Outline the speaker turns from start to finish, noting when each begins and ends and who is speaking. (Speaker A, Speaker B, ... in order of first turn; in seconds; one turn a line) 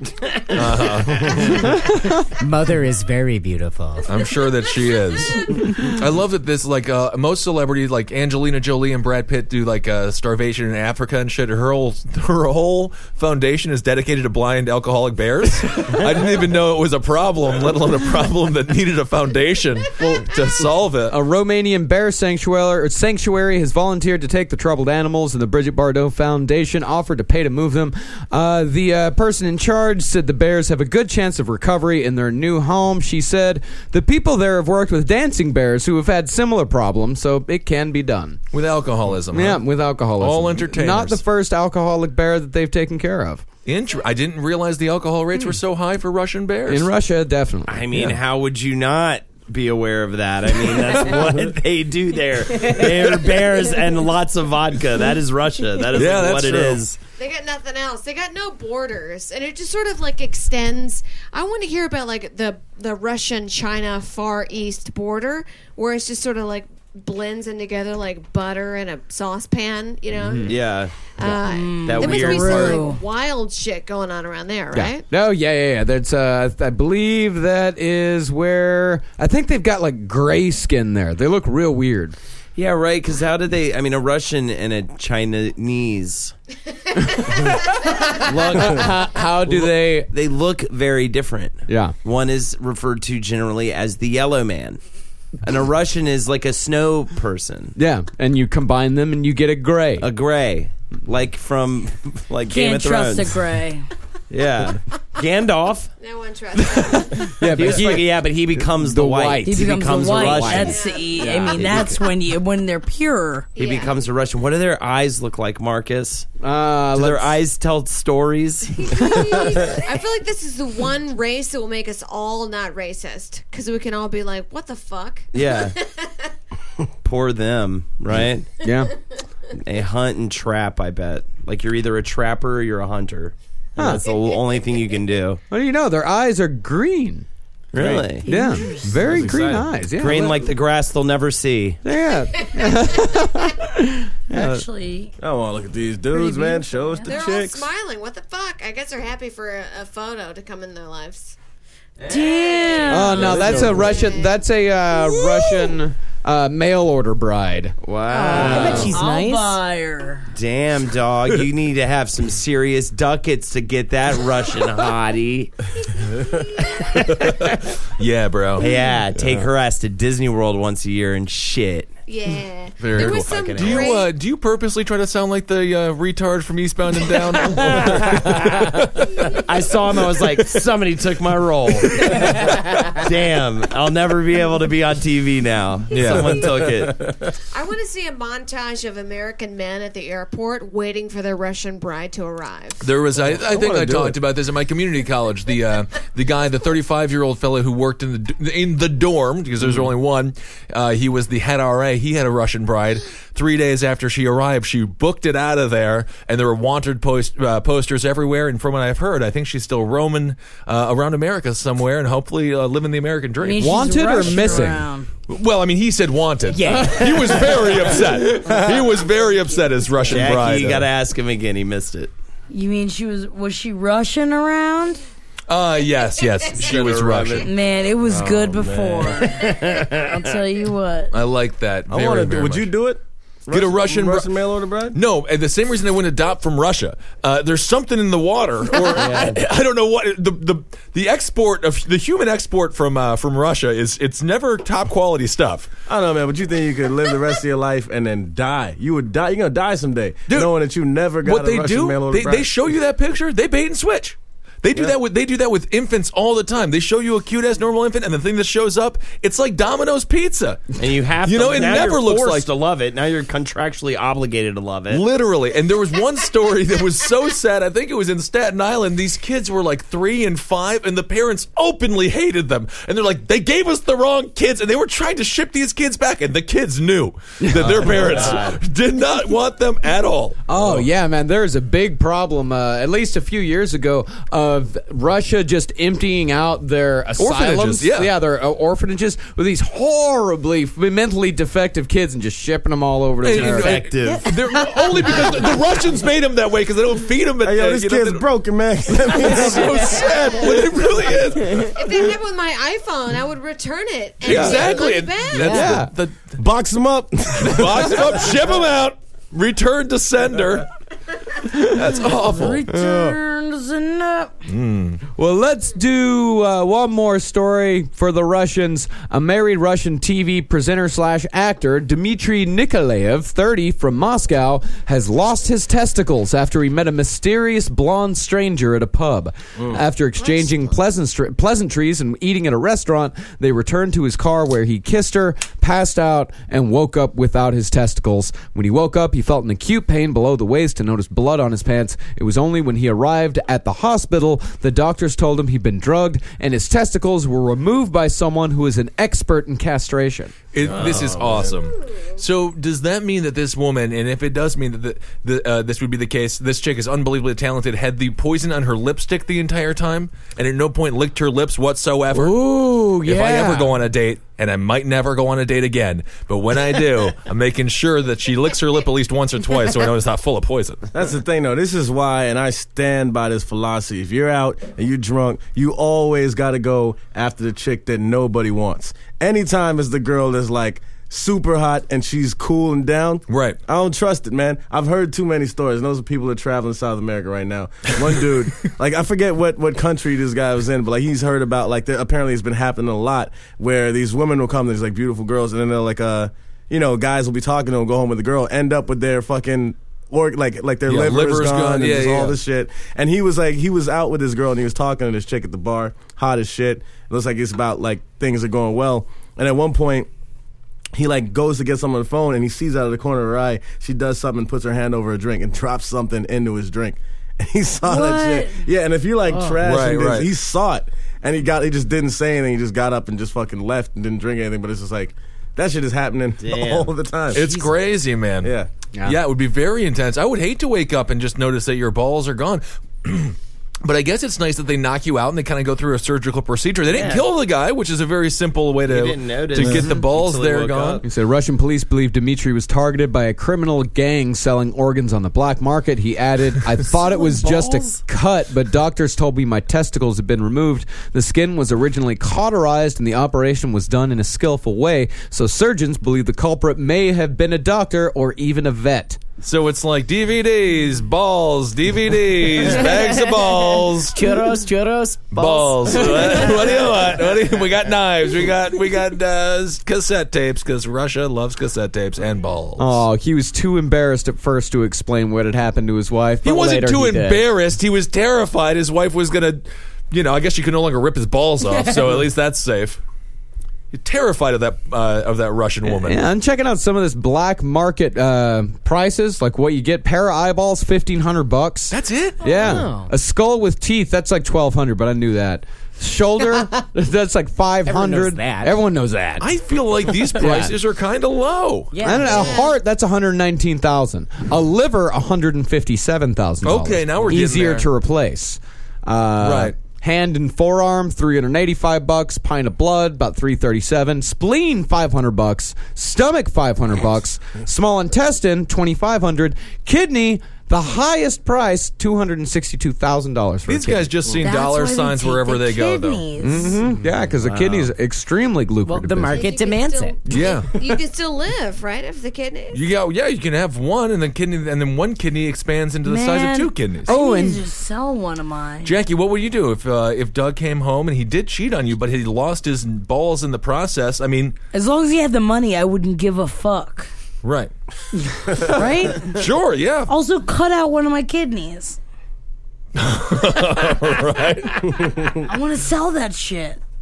Speaker A: 0.5-1.8
Speaker B: 0.8-1.5
Speaker C: 1.5-2.2
Speaker D: 2.3-4.2
Speaker A: 4.1-21.2
Speaker C: 21.0-38.4
Speaker A: 38.5-41.2
Speaker C: 39.3-43.4
Speaker A: 43.6-46.9
Speaker C: 46.7-48.1
Speaker E: 47.6-57.0
Speaker D: 52.5-52.8
Speaker A: 55.9-56.8
Speaker B: 57.2-75.0
Speaker C: 70.2-70.5
Speaker E: 70.4-71.0
Speaker F: 71.5-73.0
Speaker E: 71.8-72.9
Speaker C: 74.7-82.2
Speaker E: 82.5-86.3
Speaker E: 88.2-88.9
Speaker C: 88.2-90.1
Speaker E: 89.5-94.8
Speaker C: 91.7-91.9
Speaker E: 95.4-97.7
Speaker C: 97.7-100.1
Speaker E: 100.0-103.4
Speaker F: 102.5-103.8
Speaker E: 104.3-105.9
Speaker B: 106.0-107.4
Speaker C: 106.9-110.7
Speaker E: 107.4-112.0
Speaker F: 109.4-113.5
Speaker B: 110.5-112.1
Speaker B: 113.6-114.0
Speaker E: 113.6-116.3
Speaker C: 116.4-117.3
Speaker E: 116.9-119.4
Speaker B: 118.8-126.3
Speaker E: 125.3-125.7
Speaker E: 127.0-128.5
Speaker C: 128.6-128.9
Speaker E: 129.6-135.4
Speaker C: 135.5-140.5
Speaker E: 137.7-138.3
Speaker F: 138.3-139.0
Speaker G: 139.0-139.7
Speaker E: 139.9-141.8
Speaker C: 141.8-144.6
Speaker B: 142.5-143.1
Speaker F: 144.3-145.1
Speaker G: 145.2-147.7
Speaker F: 146.1-147.1
Speaker B: 147.1-151.3
Speaker F: 152.0-153.4
Speaker B: 152.1-154.4
Speaker D: 152.6-152.8
Speaker C: 152.9-158.9
Speaker G: 153.2-153.9
Speaker E: 153.3-153.7
Speaker D: 158.1-159.6
Speaker F: 158.3-160.3
Speaker E: 160.3-165.5
Speaker B: 166.0-166.9
Speaker E: 166.9-167.6
Speaker A: 167.9-168.7
Speaker E: 168.5-171.9
Speaker B: 172.1-174.1
Speaker A: 172.8-179.5
Speaker E: 173.1-174.0
Speaker E: 177.5-178.7
Speaker E: 179.3-187.0
Speaker A: 185.9-186.5
Speaker B: 187.5-192.9
Speaker A: 192.8-214.7
Speaker G: 193.1-194.2
Speaker F: 213.4-215.1
Speaker C: 213.6-214.8
Speaker A: 215.3-220.9
Speaker D: 216.5-218.1
Speaker G: 218.3-218.8
Speaker E: 220.1-222.1
Speaker F: 222.5-225.0
Speaker A: 225.5-227.5
Speaker E: 226.6-227.5
Speaker F: 227.3-231.1
Speaker G: 228.0-229.3
Speaker E: 229.4-230.1
Speaker A: 231.1-232.7
Speaker G: 231.9-235.0
Speaker A: 233.5-234.3
Speaker A: 234.9-245.7
Speaker G: 245.9-252.5
Speaker A: 250.3-250.5
Speaker A: 251.2-262.5
Speaker E: 260.8-265.0
Speaker A: 264.9-280.9
Speaker C: 277.4-278.1
Speaker E: 277.7-278.6
Speaker C: 280.5-293.8
Speaker A: 287.2-288.1
Speaker A: 293.2-298.2
Speaker E: 293.3-294.4
Speaker D: 294.0-294.8
Speaker G: 297.4-300.5
Speaker A: 299.0-301.8
Speaker B: 301.6-305.6
Speaker A: 304.2-306.3
Speaker C: 305.4-305.9
Speaker G: 306.4-308.4
Speaker A: 307.4-310.7
Speaker A: 311.5-312.6
Speaker F: 312.3-314.3
Speaker C: 312.7-313.2
Speaker A: 314.5-315.0
Speaker C: 315.1-350.3
Speaker B: 330.2-330.7
Speaker A: 350.5-370.8
Speaker G: 350.6-351.6
Speaker C: 362.1-363.7
Speaker G: 370.9-410.1
Speaker A: 383.3-383.6
Speaker A: 400.9-402.4
Speaker G: 410.9-427.5
Speaker F: 417.8-418.6
Speaker D: 419.3-419.6
Speaker A: 419.6-420.3
Speaker E: 426.4-426.9
Speaker A: 427.3-428.5
Speaker D: 427.4-427.8
Speaker G: 428.4-428.7
Speaker A: 429.0-441.0
Speaker E: 436.9-437.3
Speaker E: 438.9-441.0
Speaker C: 441.0-459.2
Speaker D: 447.3-447.8
Speaker A: 459.4-464.4
Speaker D: 462.6-467.2
Speaker A: 465.3-473.0
Speaker C: 472.8-477.4
Speaker A: 476.4-483.0
Speaker D: 481.7-482.1
Speaker A: 483.9-486.2
Speaker C: 485.9-499.5
Speaker A: 491.9-492.7
Speaker D: 492.4-493.1
Speaker D: 496.5-496.8
Speaker D: 497.8-498.8
Speaker A: 499.4-501.9
Speaker C: 500.3-500.8
Speaker D: 501.9-502.7
Speaker C: 502.0-524.1
Speaker B: 502.2-502.7
Speaker A: 506.6-507.9
Speaker A: 509.4-509.8
Speaker A: 523.7-526.3
Speaker F: 524.4-526.8
Speaker C: 526.4-529.5
Speaker D: 526.7-527.1
Speaker D: 528.8-530.2
Speaker B: 529.3-532.9
Speaker A: 530.3-530.7
Speaker A: 532.7-537.1
Speaker F: 536.0-538.9
Speaker C: 537.1-537.6
Speaker A: 538.8-544.5
Speaker F: 544.7-547.1
Speaker A: 547.4-547.7
Speaker A: 548.5-550.1
Speaker F: 548.5-549.4
Speaker F: 550.1-552.0
Speaker A: 552.9-555.4
Speaker F: 555.4-556.8